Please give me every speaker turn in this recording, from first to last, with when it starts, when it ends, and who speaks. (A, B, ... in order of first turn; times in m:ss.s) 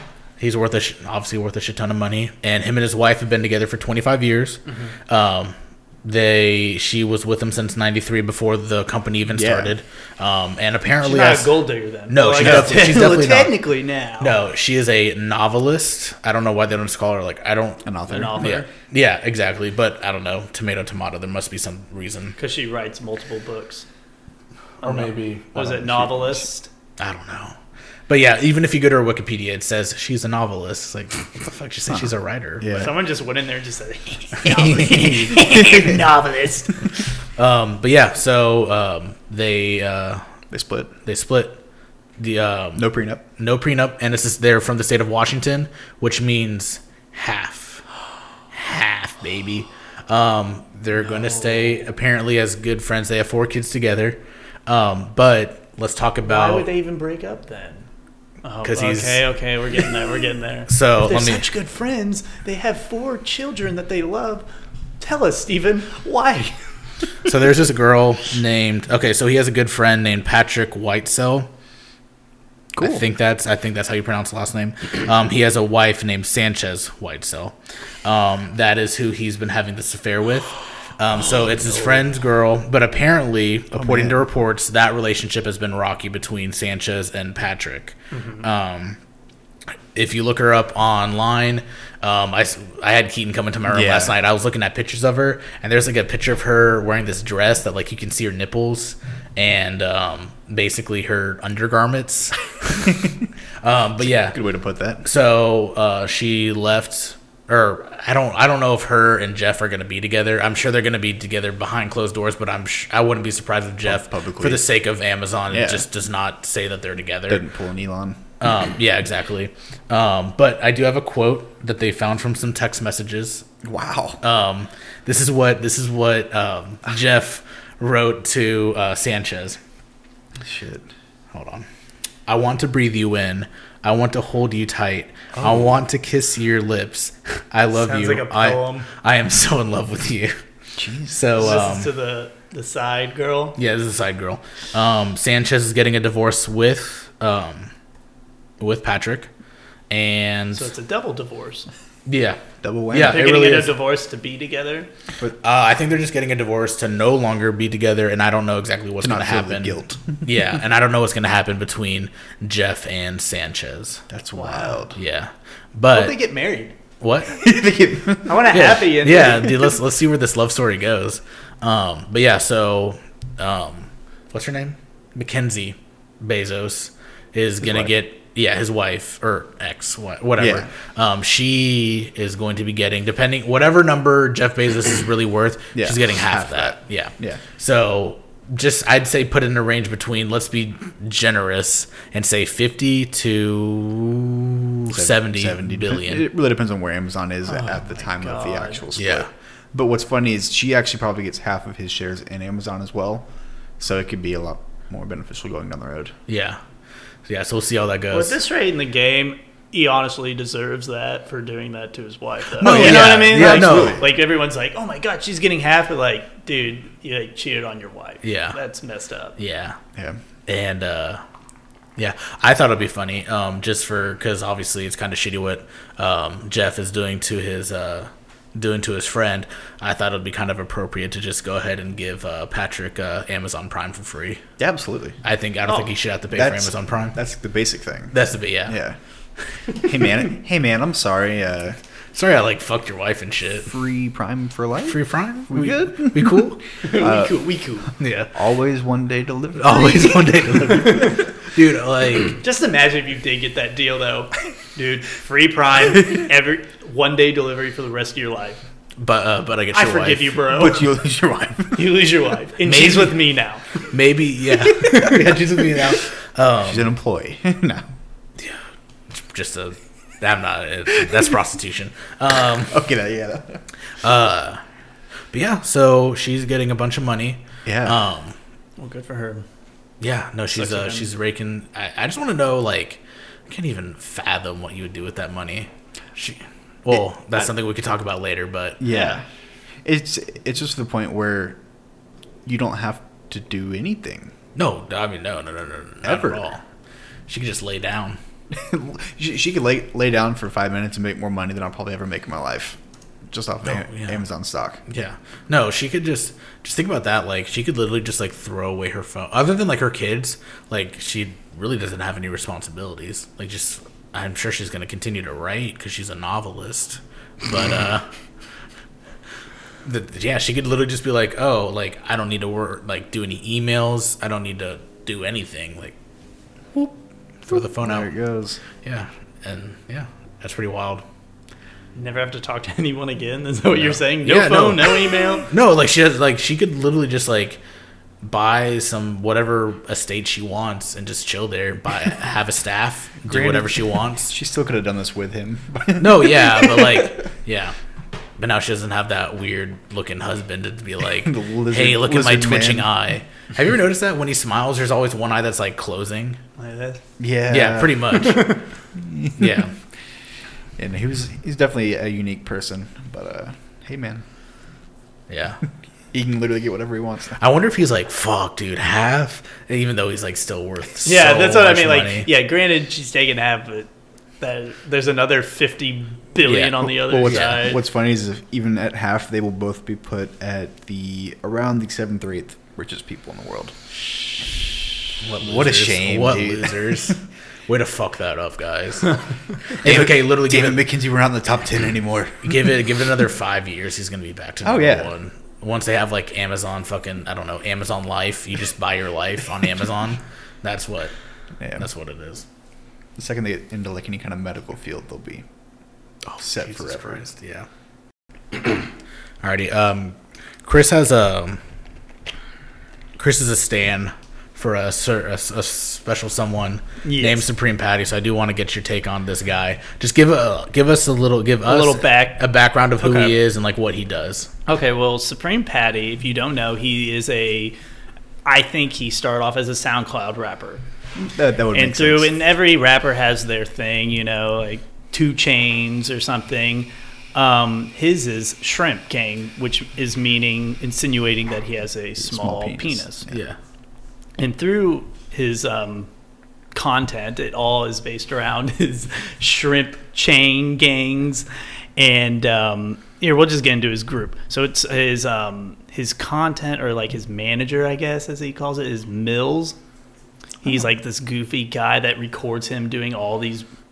0:00.4-0:11.6 A
0:04.7-0:04.9 B
0:09.3-0:09.7 C
0:11.0-0:14.4 B
0:12.1-0:13.6 A
0:12.4-0:12.7 C
0:14.2-0:22.4 A
0:17.8-0:18.6 C
0:18.1-0:18.7 B
0:22.4-0:23.8 B
0:24.8-0:25.6 A
0:24.8-0:26.7 B
0:25.6-0:26.4 C
0:27.0-0:27.6 A
0:28.1-0:32.9 A
0:31.9-0:32.9 C
0:32.7-0:37.0 B
0:34.4-0:35.6 A
0:34.7-0:36.0 C
0:37.4-0:40.3 A
0:40.5-0:40.9 C
0:41.0-0:41.6 A
0:42.2-0:47.8 A
0:42.8-0:43.2 C
0:48.5-0:56.7 A
0:51.1-0:51.8 B
0:56.2-0:57.9 B
0:58.4-1:04.5 B
0:58.6-0:59.2 A
1:00.7-1:01.5 A
1:05.0-1:06.6 B
1:07.2-1:11.5 A
1:12.7-1:13.0 C
1:12.8-1:29.0 A
1:23.7-1:24.2 C
1:28.1-1:28.4 B
1:29.9-1:44.4 A
1:33.7-1:34.2 C
1:44.0-1:45.0 C
1:45.0-1:57.4 A
1:53.8-1:54.6 C
1:55.5-1:55.9 C
1:57.3-1:58.2 C
1:58.4-2:03.5 A
2:03.6-2:04.2 C
2:04.2-2:09.6 A
2:10.4-2:10.9 C
2:11.3-2:11.7 A
2:12.3-2:20.4 A
2:15.3-2:15.8 C
2:17.7-2:18.9 B
2:20.8-2:21.7 C
2:21.1-2:21.9 A
2:21.4-2:23.6 B
2:23.6-2:27.7 A
2:28.6-2:29.3 A
2:29.9-2:30.7 A
2:30.5-2:31.7 B
2:32.1-2:33.7 A
2:32.6-2:33.3 C
2:33.0-2:34.9 B
2:35.4-2:44.0 A
2:39.0-2:40.2 C
2:44.1-2:45.0 C
2:44.3-2:44.8 B
2:45.0-2:46.2 A
2:45.9-2:46.7 B
2:47.0-2:47.4 A
2:47.3-2:48.7 C
2:48.3-2:49.7 B
2:48.5-3:16.3 A
2:57.6-2:57.9 C
3:00.4-3:00.7 C
3:05.8-3:07.4 C
3:14.9-3:23.3 C
3:17.5-3:18.8 B
3:19.0-3:19.3 A
3:23.8-3:26.2 C
3:26.3-3:26.6 A
3:27.3-3:28.4 A
3:28.1-3:39.4 B
3:32.6-3:34.0 A
3:32.6-3:34.1 C
3:38.2-3:38.6 A
3:39.4-3:39.8 A
3:40.0-3:40.2 C
3:40.5-3:41.2 A
3:42.0-3:54.4 A
3:54.6-3:55.2 C
3:55.2-3:57.2 A
3:56.3-3:59.0 C
3:58.1-3:58.8 A
3:59.7-4:01.8 C
4:02.1-4:03.7 A
4:03.7-4:07.4 C
4:04.9-4:06.6 A
4:06.8-4:07.9 B
4:08.0-4:08.3 A
4:08.3-4:10.3 C
4:09.6-4:12.4 A
4:10.7-4:11.3 B
4:12.3-4:18.6 B
4:19.0-4:20.4 A
4:19.7-4:20.9 B
4:20.5-4:22.0 C
4:21.7-4:23.6 B
4:22.6-4:23.2 A
4:23.9-4:26.9 A
4:24.8-4:25.3 C
4:26.6-4:27.8 C
4:29.1-4:32.8 A
4:32.6-4:33.6 C
4:34.0-4:34.6 A
4:35.3-4:38.4 A
4:37.6-4:38.0 C
4:38.8-4:39.4 B
4:40.0-4:48.8 A
4:40.6-4:41.1 B
4:48.8-4:49.2 C
4:48.8-4:49.2 B
4:49.8-4:51.6 C
4:52.4-4:54.3 C
4:54.6-4:56.6 A
4:56.0-4:56.5 C
4:57.3-4:58.2 A
4:58.5-5:04.8 C
5:03.6-5:04.2 A
5:04.9-5:18.1 A
5:19.8-5:26.0 A
5:27.5-5:28.1 A
5:27.5-5:28.6 C
5:28.8-5:31.0 A
5:32.0-5:35.5 B
5:33.8-5:37.6 A
5:38.2-5:44.3 A
5:43.2-5:47.3 C
5:46.0-5:47.8 A
5:48.4-5:56.4 A
5:51.2-5:52.9 C
5:56.6-5:57.0 B
5:57.2-5:58.4 C
5:57.5-5:58.6 A
5:58.2-5:58.6 B
5:58.9-5:59.7 C
5:59.4-5:59.7 A
6:00.8-6:04.2 C
6:05.3-6:05.6 A
6:06.1-6:07.4 C
6:07.4-6:12.3 A
6:11.0-6:13.9 B
6:14.4-6:17.8 B
6:16.4-6:17.7 A
6:16.9-6:23.8 C
6:25.2-6:30.8 A
6:25.4-6:27.1 C
6:29.8-6:32.7 C
6:32.4-6:41.1 A
6:34.6-6:35.1 C
6:41.6-6:41.8 C
6:41.8-6:42.4 A
6:43.2-6:45.5 C
6:46.2-6:47.7 A
6:46.4-6:47.2 C
6:49.4-6:51.6 A
6:53.2-7:04.5 A
6:57.0-6:57.4 B
7:01.7-7:02.5 B
7:03.0-7:03.4 B
7:04.7-7:07.8 B
7:08.4-7:10.8 B
7:11.2-7:12.3 C
7:11.7-7:23.3 B
7:22.2-7:23.3 C
7:23.3-7:23.6 A
7:24.4-7:26.1 B
7:26.7-7:39.8 B
7:40.6-7:43.7 B